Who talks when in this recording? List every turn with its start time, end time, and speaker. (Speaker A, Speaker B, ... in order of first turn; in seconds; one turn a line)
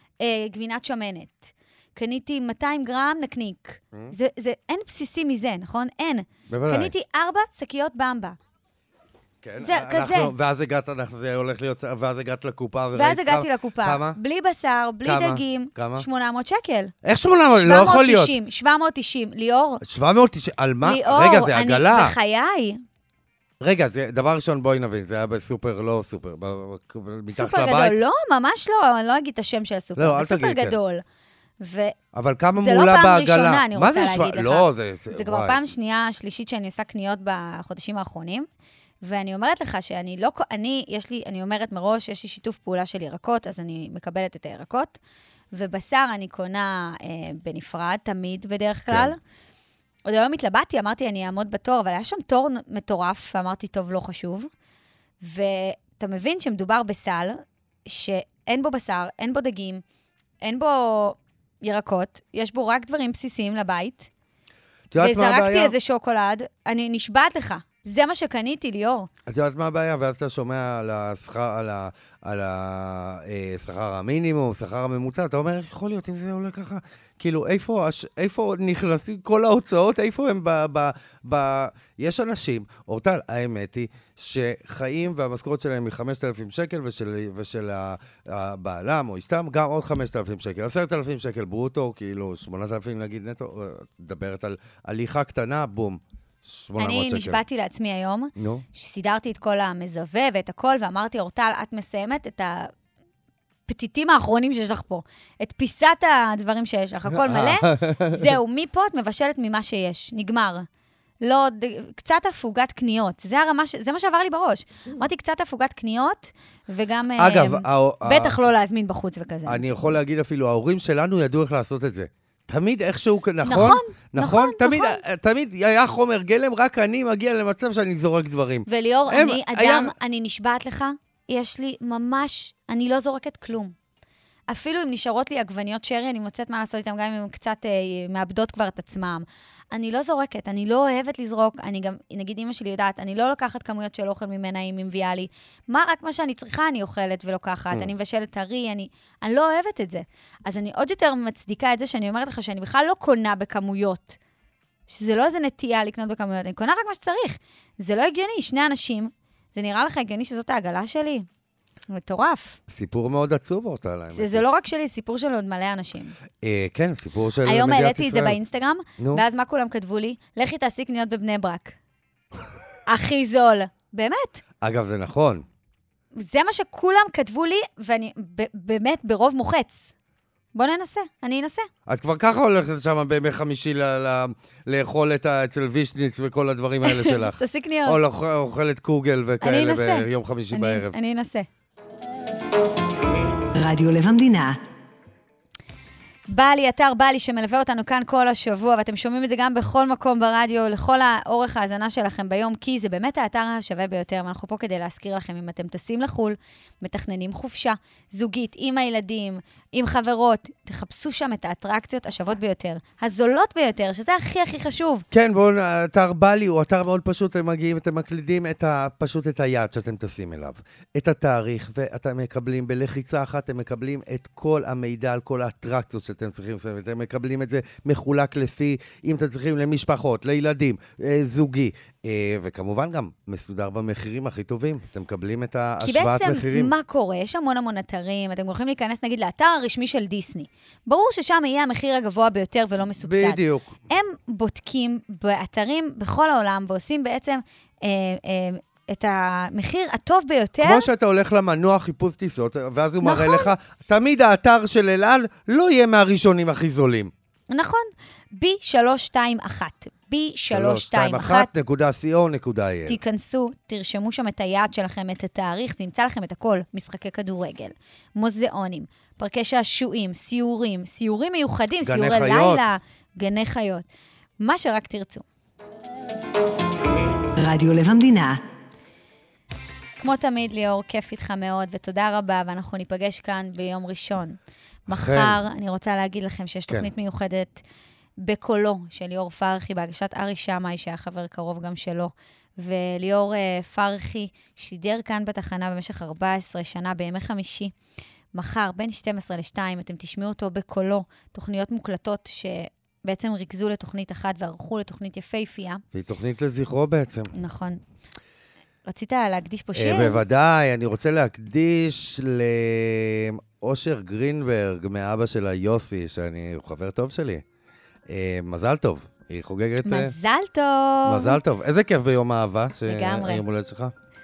Speaker A: 0.2-8.4
Speaker B: 6.5-6.9
Speaker B: 9.4-14.2
Speaker A: 9.6-10.3
Speaker A: 12.9-16.9
Speaker B: 15.0-16.1
Speaker B: 17.0-18.3
Speaker A: 17.5-19.8
Speaker B: 19.8-22.2
Speaker A: 20.8-22.8
Speaker B: 23.6-28.0
Speaker A: 27.3-31.0
Speaker B: 30.0-30.8
Speaker A: 31.6-31.9
Speaker B: 32.1-35.6
Speaker A: 32.6-38.5
Speaker A: 39.0-45.0
Speaker A: 45.5-49.2
Speaker B: 48.9-49.2
Speaker A: 50.1-54.5
Speaker A: 55.2-59.8
Speaker A: 60.4-64.1
Speaker B: 64.9-65.8
Speaker A: 65.0-69.1
Speaker B: 69.3-97.4
Speaker A: 96.8-102.7
Speaker B: 98.4-98.7
Speaker A: 103.7-110.7
Speaker B: 107.1-108.3
Speaker A: 111.2-119.6
Speaker B: 117.2-118.4
Speaker B: 119.5-129.9
Speaker A: 123.4-125.0
Speaker A: 128.7-133.8
Speaker A: 134.5-154.2
Speaker A: 154.9-161.3
Speaker A: 161.9-162.6
Speaker B: 162.7-164.5
Speaker A: 164.1-166.2
Speaker B: 166.4-168.4
Speaker A: 167.4-171.8
Speaker B: 169.0-169.2
Speaker A: 172.9-174.4
Speaker B: 174.6-175.4
Speaker A: 176.2-179.9
Speaker A: 180.6-181.7
Speaker B: 181.9-191.0
Speaker A: 186.8-188.0
Speaker A: 189.4-191.5
Speaker C: 193.6-194.6
Speaker A: 196.3-215.1
Speaker B: 215.1-236.7
Speaker A: 235.8-250.9
Speaker B: 243.0-243.8
Speaker B: 250.6-257.1
Speaker A: 253.0-253.5
Speaker A: 257.5-261.5
Speaker B: 260.5-263.0
Speaker A: 262.9-273.9
Speaker B: 271.8-272.7
Speaker A: 274.4-275.2
Speaker C: 277.4-278.4
Speaker A: 280.0-287.6
Speaker B: 284.9-285.4
Speaker A: 288.2-297.7
Speaker A: 298.3-305.8
Speaker B: 305.9-307.3
Speaker A: 307.3-307.8
Speaker A: 308.9-310.2
Speaker B: 309.8-317.4
Speaker B: 318.1-320.1
Speaker A: 319.9-321.4
Speaker B: 321.1-323.9
Speaker A: 322.9-323.4